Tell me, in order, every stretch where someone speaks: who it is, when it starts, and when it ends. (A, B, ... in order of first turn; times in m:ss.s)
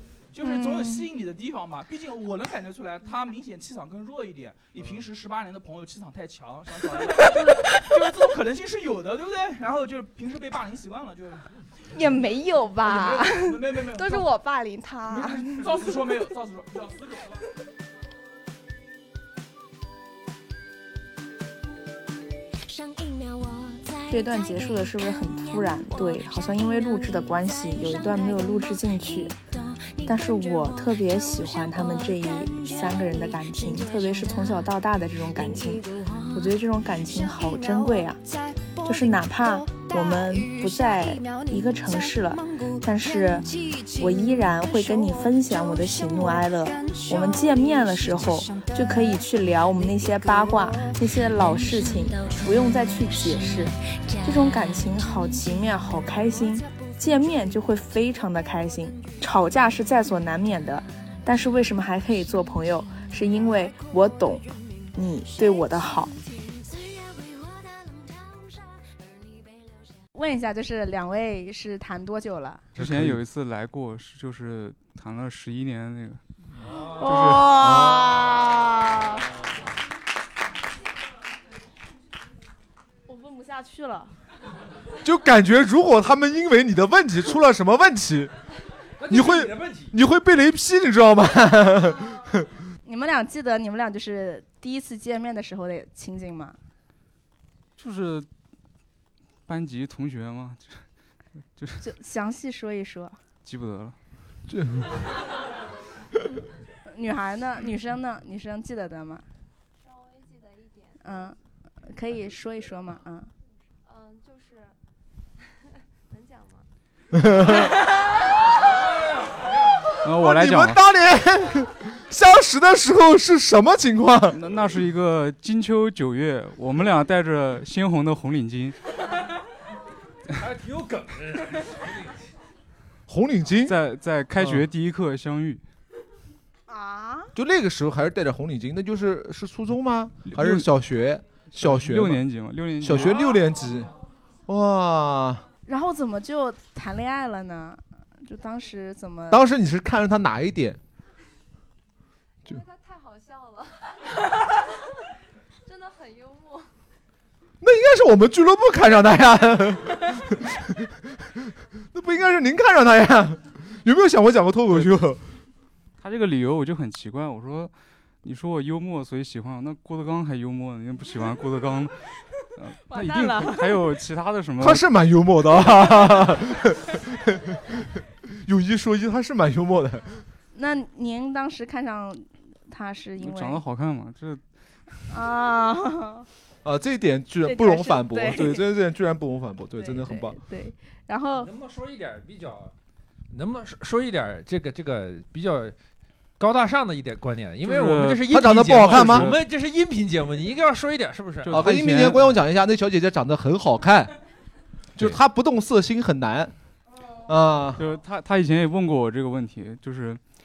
0:00.3-0:11.4 A
0:00.4-0:01.1 B
0:11.9-0:16.2 B
0:12.8-0:14.2 A
0:15.2-0:17.4 A
0:24.1-0:29.4 C
0:30.0-0:38.2 C
0:38.8-1:06.1 C
1:10.1-1:12.7 D
1:12.7-1:16.2 E
1:12.8-1:13.2 F
1:17.0-1:18.2 D
1:17.0-1:17.6 E
1:17.6-1:18.1 F
1:23.1-1:24.1 D
1:25.0-1:28.3 F
1:29.0-1:29.9 G
1:29.1-1:32.4 F
1:32.8-1:36.6 D
1:37.8-1:38.3 E
1:39.5-1:40.8 E
1:41.6-1:41.9 E
1:41.8-1:43.2 D
1:43.4-1:44.0 E
1:44.5-1:45.0 F
1:46.9-1:49.2 D
1:49.8-1:51.3 H
1:51.0-1:53.3 D
1:53.8-1:54.8 H
1:55.4-1:56.7 H
1:57.2-1:57.6 F
2:00.0-2:00.8 E
2:00.1-2:04.4 F
2:04.3-2:08.8 E
2:10.3-2:12.1 G
2:13.1-2:13.8 F
2:13.6-2:15.6 E
2:14.4-2:14.7 F
2:16.7-2:17.3 D
2:17.3-2:22.2 F
2:20.2-2:20.7 E
2:21.5-2:23.3 E
2:22.8-2:23.9 F
2:24.5-2:25.4 F
2:25.7-2:29.4 D
2:29.3-2:30.8 F
2:32.4-2:34.3 H
2:35.6-2:36.7 H
2:37.6-2:40.4 F
2:41.9-2:45.2 F
2:44.7-2:45.0 E
2:46.0-2:51.9 E
2:52.6-2:54.8 E
2:54.6-2:57.6 F
2:58.4-3:00.2 F
3:00.5-3:03.6 D
3:03.2-3:04.4 E
3:05.1-3:06.3 D
3:06.6-3:10.4 F
3:07.4-3:08.7 D
3:09.7-3:11.5 D
3:11.3-3:12.7 G
3:13.3-3:15.7 G
3:16.4-3:22.2 G
3:17.6-3:19.4 E
3:18.3-3:19.3 F
3:21.4-3:22.4 E
3:21.5-3:24.1 F
3:25.0-3:26.5 F
3:27.2-3:27.8 F
3:27.8-3:30.2 E